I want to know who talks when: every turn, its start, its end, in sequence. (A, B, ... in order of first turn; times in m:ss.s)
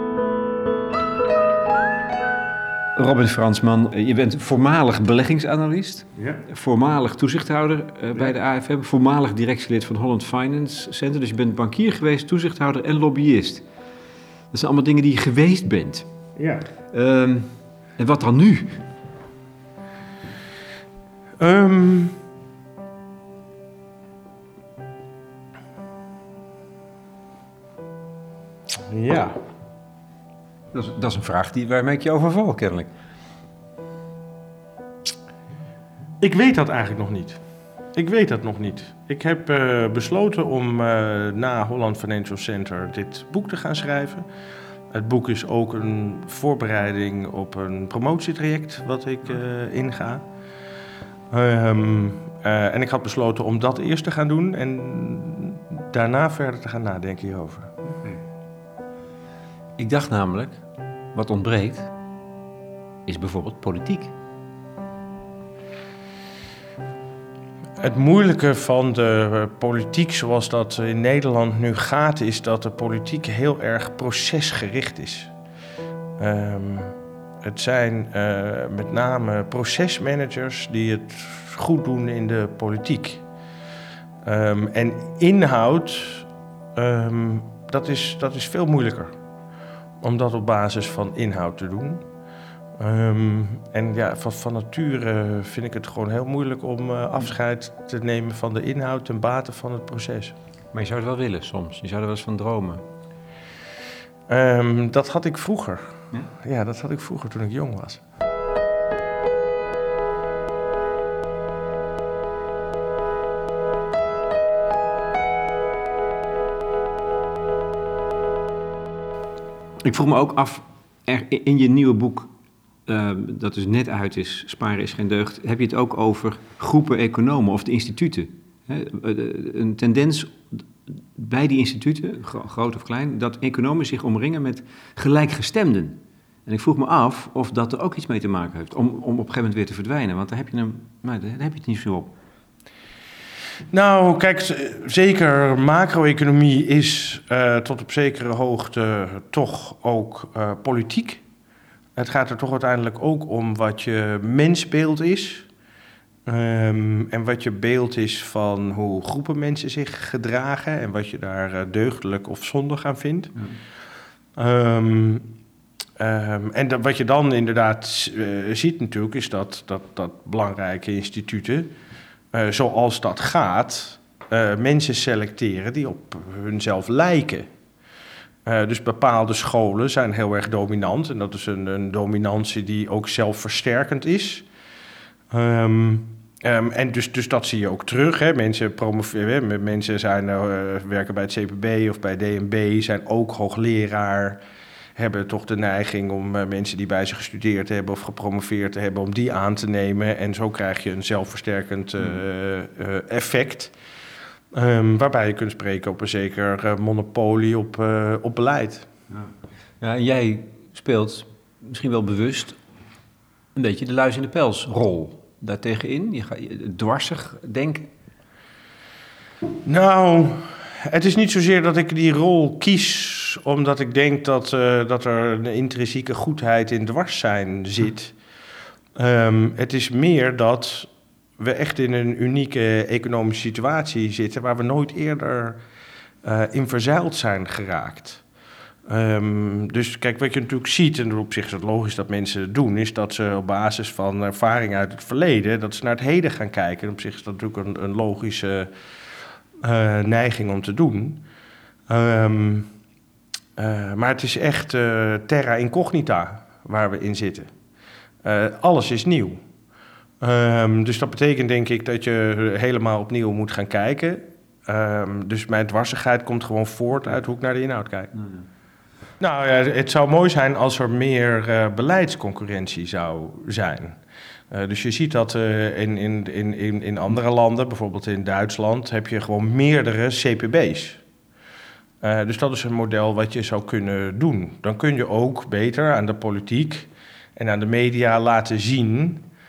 0:03.0-0:13.6 A
0:14.5-0:16.1 A
0:16.4-0:16.6 B
0:16.9-0:18.8 A
0:21.4-0:22.2 B
0:28.8-0:29.4 B
0:30.7-0:32.9 A
0:36.2-0:37.4 B
0:38.0-0:44.2 B
0:44.9-0:50.2 B
0:51.3-0:57.8 B
0:59.8-1:00.6 A
1:01.1-1:01.9 A
1:03.1-1:04.1 A
1:07.8-1:15.3 B
1:16.2-1:23.2 B
1:24.2-1:29.1 B
1:30.0-1:32.0 B
1:32.8-1:40.3 B
1:40.7-1:42.8 A
1:44.3-1:48.0 B
1:59.8-2:02.3 A
2:02.9-2:22.1 A
2:23.7-2:31.2 B
2:32.0-2:35.5 B
2:36.2-2:43.4 B
2:44.4-2:45.3 B
2:46.0-2:51.7 B
2:52.3-2:57.5 B
2:58.4-3:04.5 B
3:05.3-3:14.4 B
3:15.0-3:23.7 B
3:24.5-3:28.9 B
3:29.8-3:32.6 A
3:33.5-3:37.9 A
3:39.6-3:48.2 B
3:49.0-3:55.6 B
3:56.2-3:58.2 B
3:58.9-4:08.7 B
4:09.6-4:11.2 B
4:11.9-4:12.7 B
4:13.6-4:17.5 B
4:18.2-4:19.4 B
4:20.2-4:28.2 B
4:29.2-4:34.0 B
4:34.5-4:41.0 B
4:42.0-4:49.2 B